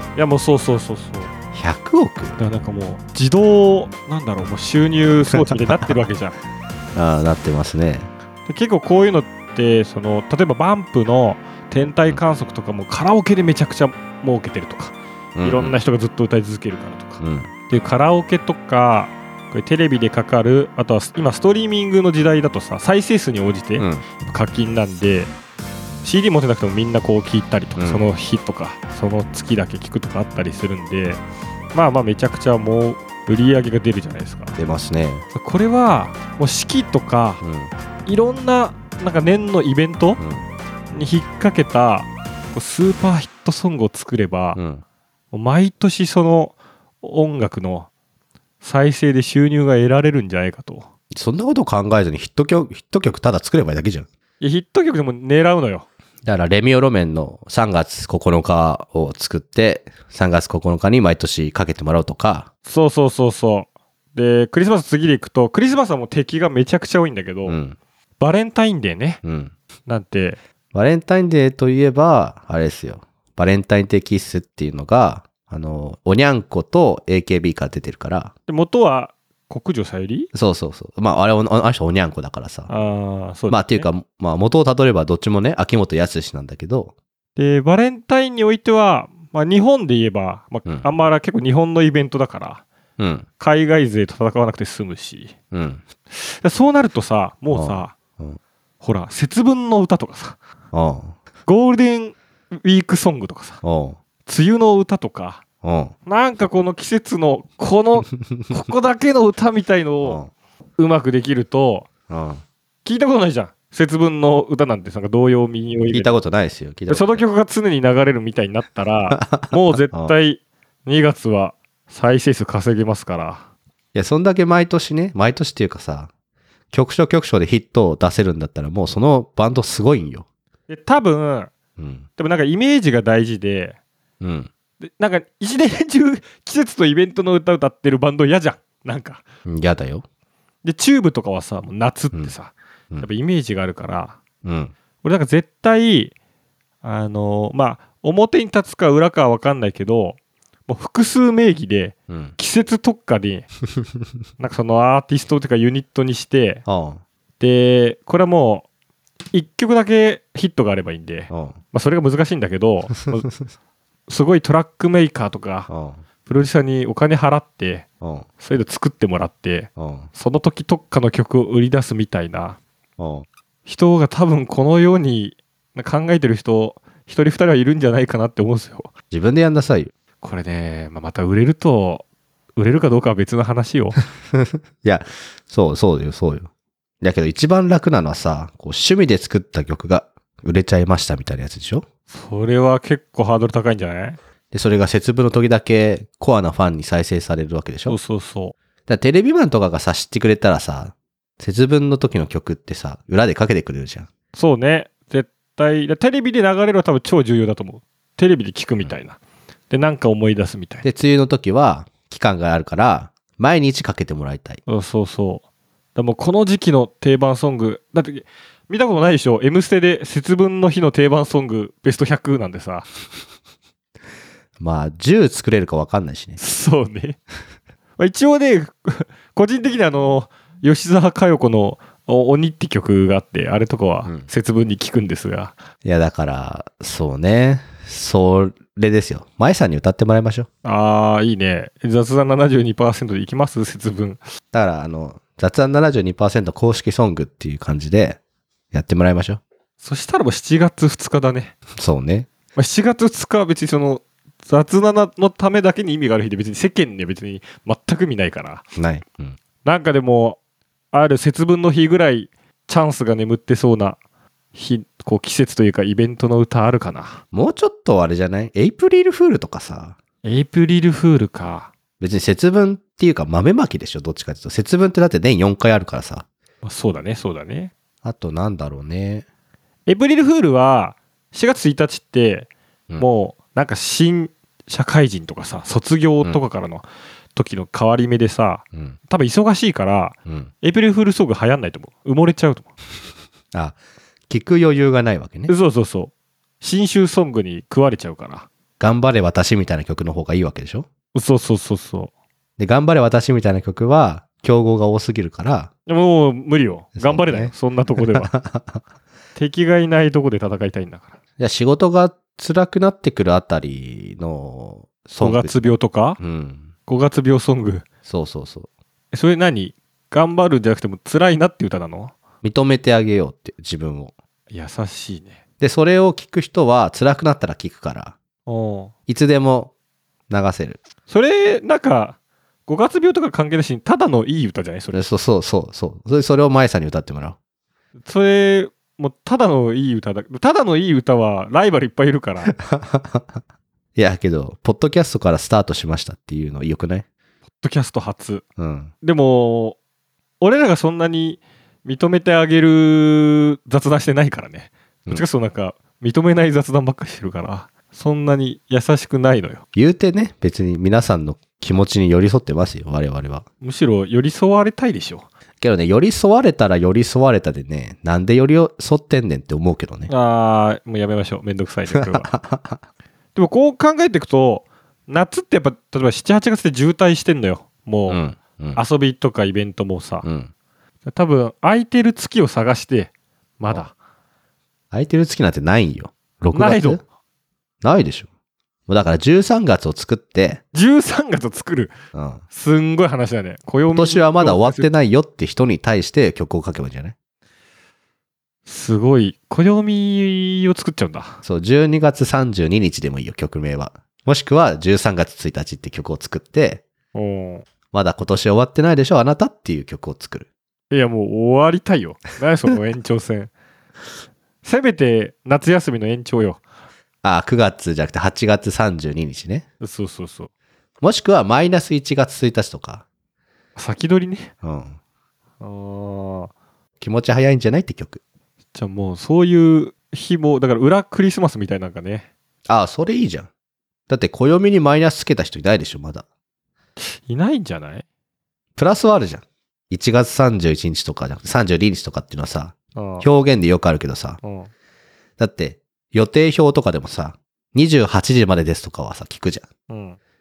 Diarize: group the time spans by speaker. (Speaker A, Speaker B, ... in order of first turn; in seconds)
Speaker A: 0.1-1.3, 2.4-6.4, 8.4-25.3, 26.0-31.2, 31.7-34.6, 35.3-37.4, 38.0-40.2, 40.9-44.6, 45.3-47.9, 48.6-50.9, 54.4-55.9, 62.6-67.6, 68.2-69.2, 69.8-70.4, 78.5-80.3, 82.7-83.9, 87.3-92.6, 93.4-95.3, 96.1-97.9, 98.8-100.4, 101.5-103.6, 104.2-105.4, 106.0-110.2, 110.8-111.9, 112.8-116.1, 116.9-123.4, 130.7-131.5, 132.2-133.8, 134.8-139.2, 140.6-144.2, 145.0-146.1, 146.8-153.5, 154.4-156.6, 157.4-158.7, 159.3-163.3, 164.1-165.7, 166.2-167.9, 168.4-172.6, 173.7-178.9, 180.2-182.0, 182.6-184.0, 192.1-194.2, 197.9-198.5, 204.3-209.2, 209.7-210.8, 214.7-215.4, 215.9-222.9, 226.4-227.2, 228.0-235.5, 240.6-244.2, 249.8-251.5, 252.5-258.6, 259.6-260.4, 260.9-264.0, 264.5-267.2, 270.2-271.7, 276.6-277.7, 279.9-292.7, 295.5-298.5, 301.1-302.1, 305.9-308.3, 309.4-311.1, 315.2-316.2, 316.9-317.8, 319.1-322.1, 324.5-325.4, 328.4-328.9, 331.1-335.0, 338.0-342.5, 347.6-348.4, 349.0-349.8, 350.4-359.6, 363.6-365.2, 370.1-372.3, 373.3-378.2, 378.8-380.2, 381.1-383.9, 386.5-387.0, 390.7-391.9, 392.5-394.9, 398.6-401.4, 407.1-407.6, 410.9-413.5, 414.6-416.6, 419.8-420.5, 423.8-424.5, 425.6-426.5, 428.7-432.3, 437.0-438.0, 442.9-443.3, 444.4-444.7, 449.9-450.2
Speaker B: 1.5-2.4, 5.3-6.0, 7.0-8.1, 15.3-15.7, 17.2-17.5, 23.8-24.0, 27.8-28.0, 34.6-35.2, 37.4-37.7, 40.2-40.5, 44.5-44.8, 51.1-54.1, 56.2-62.5, 67.4-67.8, 69.2-69.5, 70.7-78.3, 80.3-82.7, 83.5-86.9, 93.0-93.2, 95.5-95.8, 97.5-98.4, 100.7-101.2, 103.6-104.0, 105.6-105.9, 110.0-110.3, 112.1-112.4, 115.9-117.2, 119.1-120.1, 123.9-126.1, 126.7-130.2, 131.8-132.1, 134.2-134.5, 139.4-140.0, 144.4-144.7, 152.1-152.3, 156.7-157.0, 161.3-161.6, 165.7-166.0, 168.0-168.2, 169.8-170.1, 173.0-173.2, 179.1-179.9, 184.3-186.5, 187.0-191.8, 194.5-197.9, 198.9-204.1, 210.8-214.6, 224.6-226.4, 235.8-240.5, 244.5-248.2, 248.7-249.4, 251.8-252.3, 258.8-259.4, 267.3-269.9, 272.0-276.2, 278.0-279.2, 290.2-290.5, 294.3-295.5, 298.8-300.9, 302.6-305.7, 307.0-308.8, 311.4-316.7, 318.0-318.7, 322.4-324.1, 325.6-328.1, 329.1-329.7, 330.3-330.8, 334.9-337.4, 342.5-343.4, 343.9-347.0, 348.6-348.9, 359.7-363.4, 365.6-370.1, 371.9-372.8, 378.1-378.8, 380.2-380.5, 384.9-387.0, 387.8-388.3, 388.9-390.6, 392.1-392.4, 393.9-397.1, 401.4-406.8, 407.9-410.5, 417.2-419.6, 421.0-423.0, 424.6-425.0, 427.0-428.2, 432.7-433.5, 434.1-436.2, 438.8-444.4, 445.4-449.7